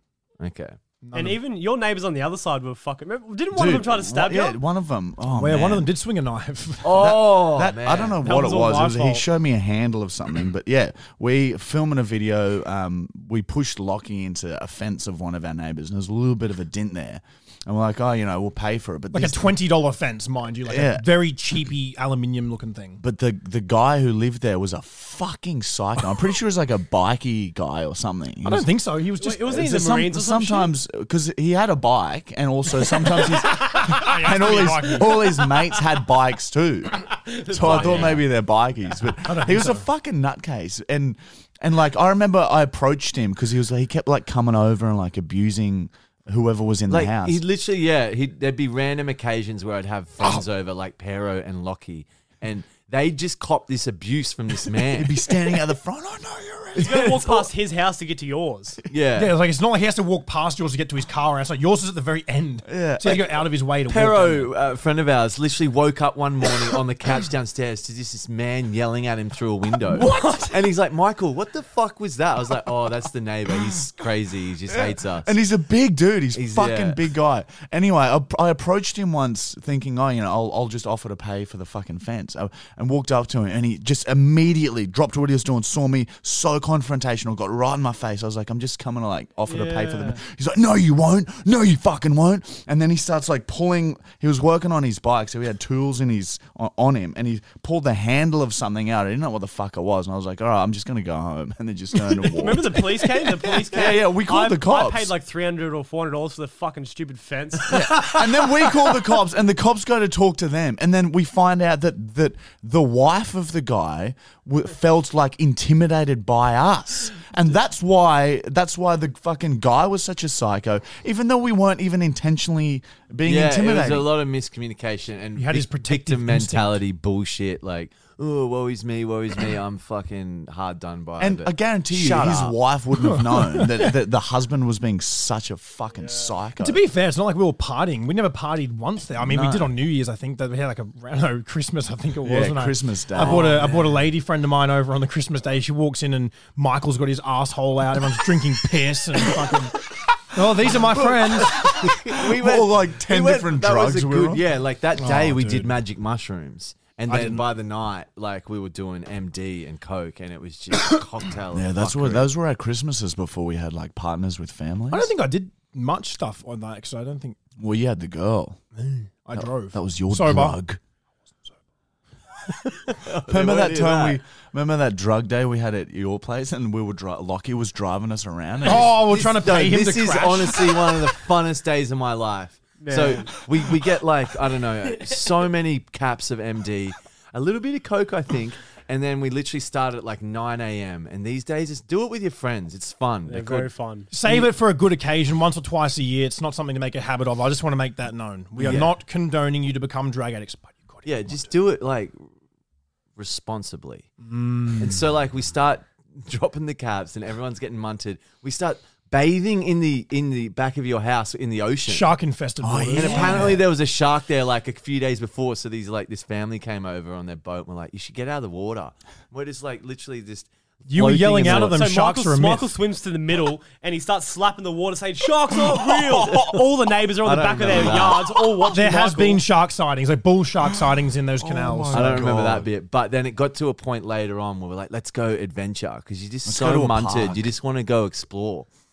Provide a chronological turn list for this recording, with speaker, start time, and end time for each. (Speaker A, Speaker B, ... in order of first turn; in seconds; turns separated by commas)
Speaker A: 0.4-0.8, Speaker B: 1.0-1.4, Speaker C: 1.1-4.6, Speaker D: 3.5-5.9, Speaker B: 5.3-7.0, Speaker A: 6.8-8.2, Speaker D: 6.8-19.6, Speaker B: 8.2-9.2, Speaker C: 8.5-9.0, Speaker B: 19.1-23.0, Speaker D: 20.7-21.1, Speaker D: 23.0-28.7, Speaker B: 28.4-29.6, Speaker C: 29.2-30.7, Speaker D: 29.5-47.4, Speaker B: 33.2-35.5, Speaker C: 37.3-38.2, Speaker A: 37.7-38.2, Speaker B: 39.2-39.8, Speaker A: 46.9-55.4, Speaker D: 54.8-57.2, Speaker A: 56.8-57.5, Speaker C: 56.8-58.8, Speaker A: 58.9-59.4, Speaker B: 59.2-64.5, Speaker D: 62.6-63.2, Speaker A: 63.9-75.3, Speaker D: 69.9-70.5, Speaker D: 74.7-105.1, Speaker A: 76.3-77.0, Speaker C: 89.5-90.2, Speaker C: 102.1-109.0, Speaker D: 107.7-124.1, Speaker A: 123.2-132.6, Speaker B: 125.4-126.8, Speaker D: 131.2-136.8, Speaker B: 133.0-133.9, Speaker B: 136.6-149.8, Speaker D: 139.2-139.8, Speaker D: 142.2-143.7, Speaker A: 143.2-144.0, Speaker B: 150.3-151.6, Speaker D: 150.5-154.4, Speaker A: 151.6-162.3, Speaker B: 155.0-155.7, Speaker B: 157.1-157.4, Speaker D: 161.5-165.1, Speaker B: 164.9-167.4, Speaker D: 167.6-168.6, Speaker B: 168.9-170.6, Speaker D: 169.4-170.8, Speaker A: 172.7-174.2, Speaker D: 173.3-179.0, Speaker B: 178.7-180.9, Speaker A: 178.7-193.7, Speaker C: 182.8-183.3, Speaker C: 193.3-194.1, Speaker B: 194.1-201.5, Speaker A: 198.6-198.9, Speaker A: 201.1-202.2, Speaker A: 203.2-204.1, Speaker B: 204.2-205.0, Speaker A: 204.8-212.1, Speaker B: 211.9-213.5, Speaker D: 212.6-213.6, Speaker A: 212.9-221.8, Speaker B: 220.9-222.8, Speaker C: 221.4-229.4, Speaker D: 225.7-226.5, Speaker A: 227.2-228.2, Speaker D: 227.7-228.0, Speaker B: 228.7-232.1, Speaker D: 231.4-232.7, Speaker A: 231.9-238.7, Speaker D: 236.4-237.5